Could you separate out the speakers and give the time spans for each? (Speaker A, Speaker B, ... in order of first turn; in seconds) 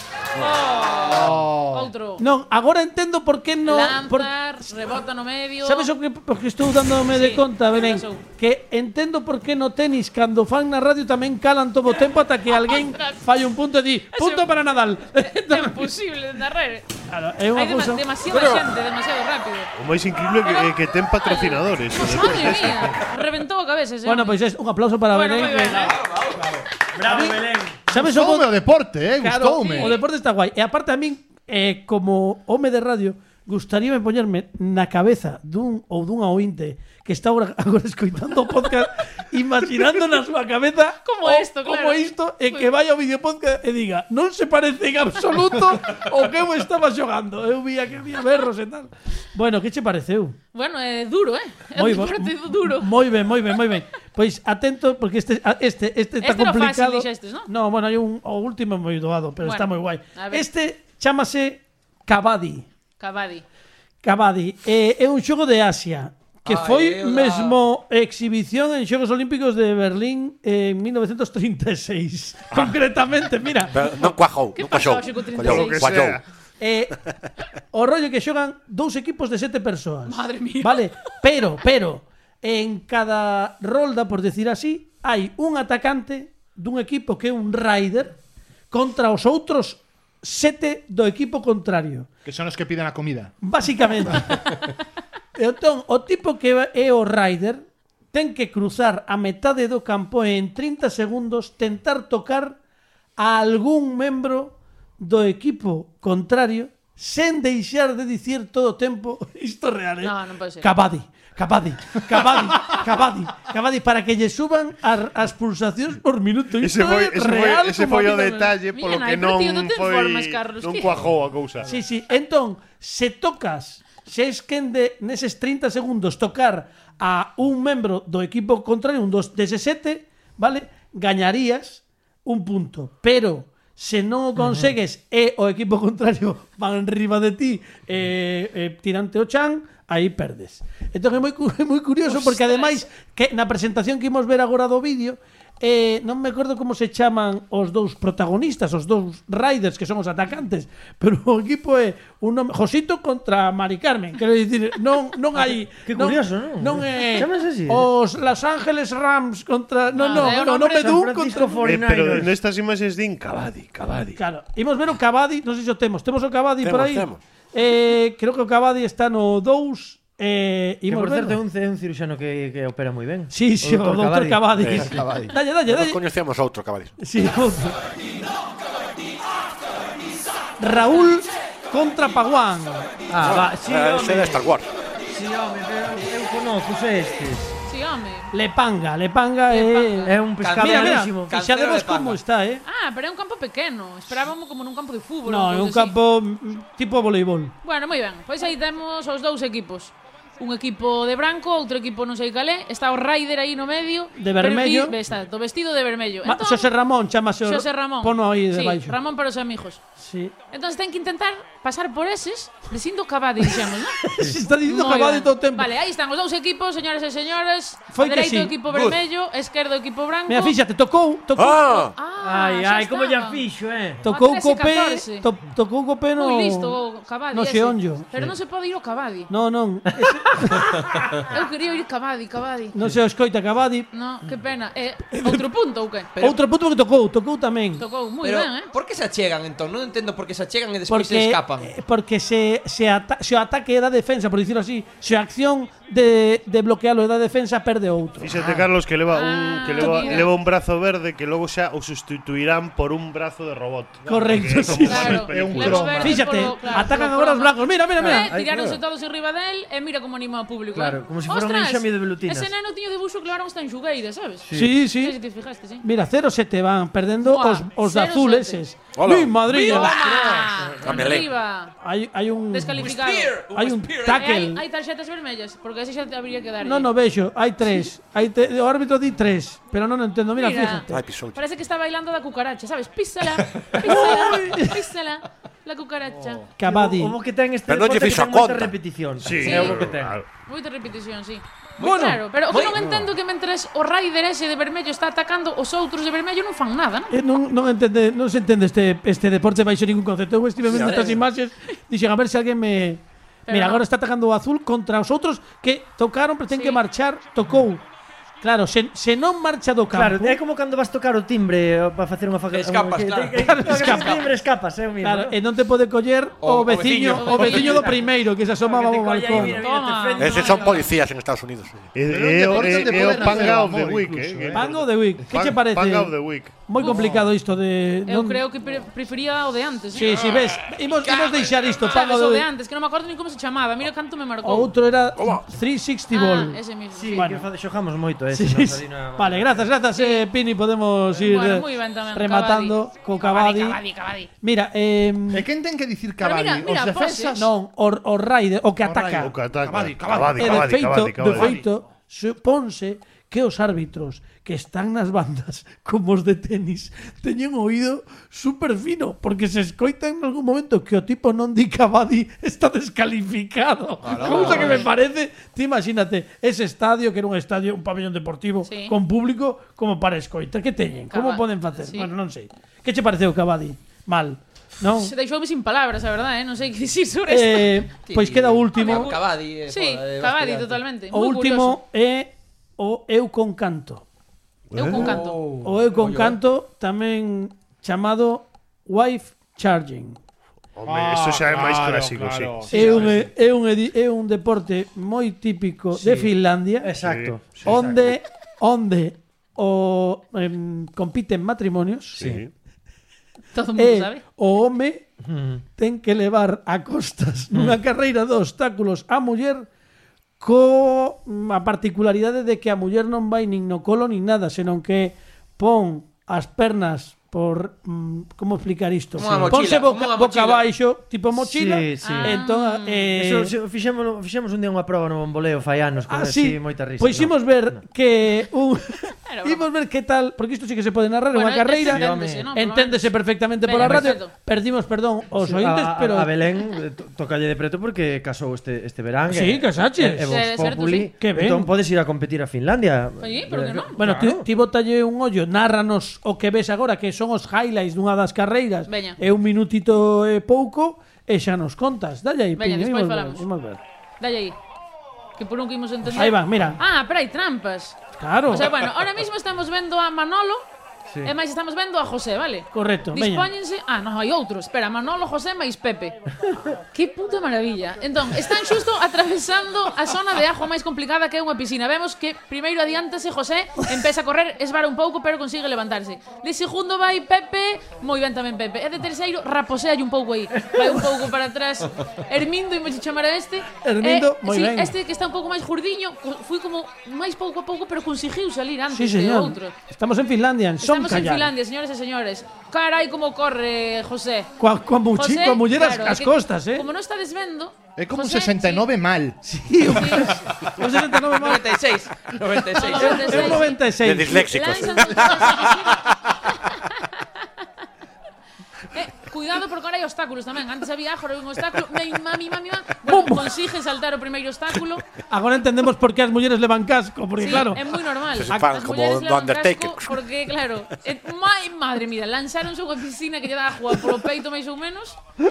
Speaker A: 0.3-2.2, 3.7-5.9, 7.1-8.2, 12.5-13.2, 14.1-14.5, 15.1-16.9, 17.5-19.7, 20.4-24.4, 25.1-26.0, 29.7-30.0, 41.0-42.7, 50.5-52.9, 56.2-57.5, 59.4-60.5, 63.0-63.5, 74.5-75.9, 80.1-80.9, 110.0-110.7, 118.7-121.0, 142.1-142.8, 159.9-160.9, 187.7-188.3, 189.5-190.1, 192.6-195.9, 197.6-206.7, 207.4-209.8, 210.5-214.0, 214.7-220.6, 221.8-223.4, 224.0-225.3, 226.1-229.3, 231.3-232.8, 233.9-236.1, 237.8-238.7, 249.1-250.3, 254.8-265.8, 267.2-268.6, 269.5-271.8, 272.5-273.5, 274.1-276.9, 280.3-286.4, 289.4-289.9, 290.4-297.1, 300.7-301.2, 303.5-303.9, 306.5-306.8, 317.2-317.9, 319.4-320.9, 326.8-327.1, 328.1-330.4, 331.0-334.7, 336.1-337.3, 339.9-340.3, 341.2-344.3, 346.2-347.5, 364.2-364.9, 368.7-368.9, 371.1-372.1, 374.9-377.8, 378.8-381.8, 384.8-385.4, 403.5-404.2, 422.0-423.2, 429.3-429.6, 431.3-434.3, 440.3-441.1, 443.2-444.0, 448.9-449.2, 452.6-453.4, 454.2-454.6, 455.4-460.6, 461.2-466.2, 466.9-489.8, 490.8-494.5, 495.1-498.9, 499.9-500.4, 502.8-506.8, 508.9-515.0, 517.4-525.2
Speaker B: 1.0-1.6, 25.8-26.5, 66.5-67.6, 190.4-192.2, 218.7-219.0, 236.1-236.4, 238.2-241.7, 269.5-270.9, 272.8-274.2, 292.5-292.8, 312.5-314.3, 316.4-318.0, 331.1-331.6, 364.0-364.9, 378.0-380.8, 384.9-386.4, 419.2-420.7, 501.3-503.6
Speaker C: 2.2-4.3, 5.6-15.9, 17.1-18.6, 24.1-25.9, 27.0-28.6, 29.2-50.4, 51.8-62.7, 64.0-73.8, 76.6-77.0, 77.7-88.2, 88.7-92.1, 93.4-94.6, 95.4-102.6, 103.2-118.6, 121.7-161.7, 164.2-171.4, 173.3-176.0, 177.0-177.8, 180.6-182.9, 188.3-192.6, 195.3-197.5, 204.2-204.9, 206.2-209.0, 210.0-210.3, 214.1-215.7, 217.9-218.6, 220.3-221.8, 224.0-226.8, 227.3-228.1, 229.3-230.8, 232.7-233.9, 235.1-235.5, 236.2-237.8, 240.9-248.4, 249.8-250.2, 254.1-255.3, 255.8-258.3, 264.5-265.2, 265.8-270.0, 271.8-272.9, 273.5-274.6, 276.6-281.0, 283.8-284.8, 286.6-287.1, 291.8-292.2, 297.1-307.8, 308.4-310.4, 313.4-314.2, 315.0-319.6, 322.6-323.4, 324.5-328.4, 329.9-332.5, 334.4-336.6, 337.1-337.4, 338.3-343.8, 344.4-345.5, 347.3-349.3, 350.4-375.1, 377.3-379.1, 381.1-384.1, 385.6-390.2, 392.7-396.9, 397.7-402.3, 403.8-405.1, 405.8-409.7, 410.4-423.5, 426.1-436.3, 439.3-440.7, 441.2-441.7, 444.0-453.8, 456.1-456.8, 458.2-458.8, 462.7-463.5, 483.8-484.9, 488.9-491.5, 494.6-496.9, 499.4-501.8, 502.7-505.2, 513.1-513.5, 515.3-517.8
Speaker D: 19.8-23.0, 75.4-76.2, 116.6-121.7, 161.6-164.2, 248.2-256.2, 289.2-290.3, 321.9-327.1, 349.1-351.6, 384.7-385.1, 390.8-393.2, 397.0-397.9, 402.2-402.5
Speaker E: 26.3-27.8, 134.4-134.7, 155.8-157.9, 160.1-162.3, 170.9-175.3, 183.1-184.4, 185.1-187.5, 190.1-191.3, 222.2-224.0, 258.0-258.8, 260.7-262.5, 264.4-264.8, 286.2-290.2, 309.9-315.4, 318.6-320.9, 322.4-323.7, 336.9-339.7, 392.7-393.1, 395.9-398.2, 405.2-405.6, 421.3-422.4, 423.2-427.8, 431.8-432.5, 433.8-434.2, 435.4-444.5
Speaker F: 27.9-30.0, 92.2-93.3, 255.3-256.2, 322.1-324.6, 345.3-347.5, 348.8-350.5, 390.8-393.2, 497.9-499.4
Speaker G: 73.7-76.2, 166.6-167.2, 174.6-176.9, 183.2-184.7, 221.4-221.9, 268.9-269.4, 270.8-271.3, 280.9-281.4, 287.7-288.8, 320.2-321.9, 335.2-335.4, 504.0-506.3, 518.4-520.2